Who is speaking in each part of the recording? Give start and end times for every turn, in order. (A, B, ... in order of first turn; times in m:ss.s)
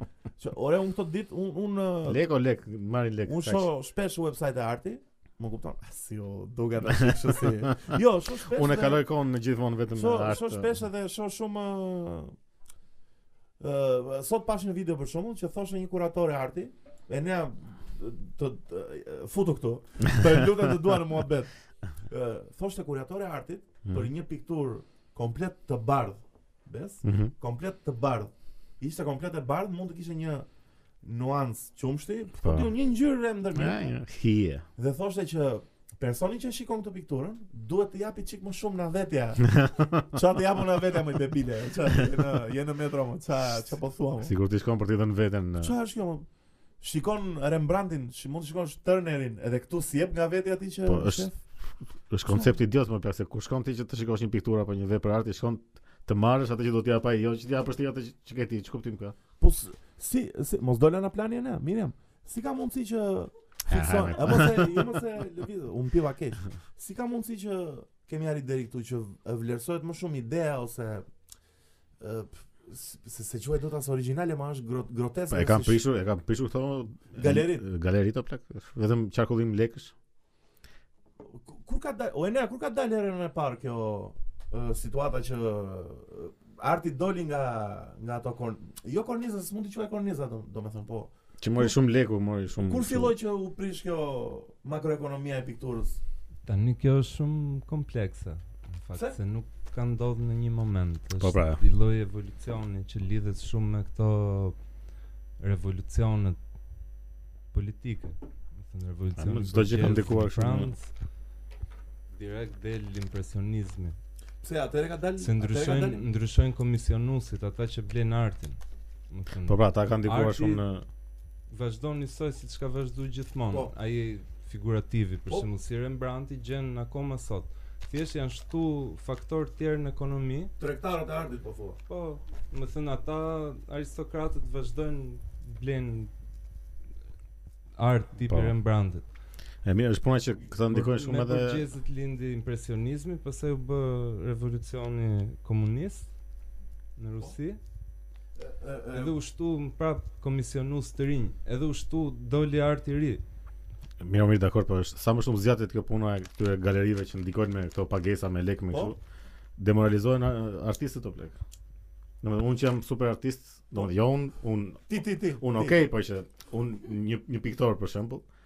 0:00.4-0:02.2 A
0:02.1-0:03.7 B
0:03.2-0:09.0 A
0:08.4-0:10.7 B
0:09.9-0:12.3 A
0:13.6-0:21.5 A
0:22.0-0:30.5 A
0:27.0-0:27.3 B
0:31.0-0:33.9 A
0:32.4-0:32.7 B
0:33.5-0:34.6 B
0:34.8-0:44.3 A
0:39.5-0:40.0 B
0:44.2-0:45.7 B
0:45.6-0:46.2 A
0:46.8-0:51.4 A
0:50.8-0:51.3 B
0:52.1-0:59.2 B
0:52.3-0:52.5 A
0:59.4-1:11.1 A
1:03.7-1:04.9 B
1:12.0-1:15.8 A
1:15.3-1:19.9 B
1:17.1-1:17.6 A
1:21.2-1:31.8 A
1:31.4-1:33.1 B
1:32.6-1:36.0 A
1:36.4-1:44.6 C
1:41.2-1:41.6 B
1:45.4-1:46.4 C
1:47.5-1:50.9 C
1:49.2-1:50.7 B
1:52.1-1:54.0 C
1:54.4-1:56.0 A
1:55.2-2:00.6 C
1:59.4-2:00.8 B
2:01.5-2:10.5 C
2:10.6-2:11.8 A
2:11.9-2:16.1 C
2:17.8-2:19.1 C
2:18.3-2:18.5 B
2:19.6-2:21.6 B
2:20.7-2:26.1 C
2:27.0-2:27.6 C
2:28.4-2:29.2 A
2:28.9-2:33.2 C
2:34.0-2:39.0 B
2:38.7-2:38.9 A
2:39.6-2:41.4 B
2:42.2-2:48.2 B
2:44.9-2:45.8 A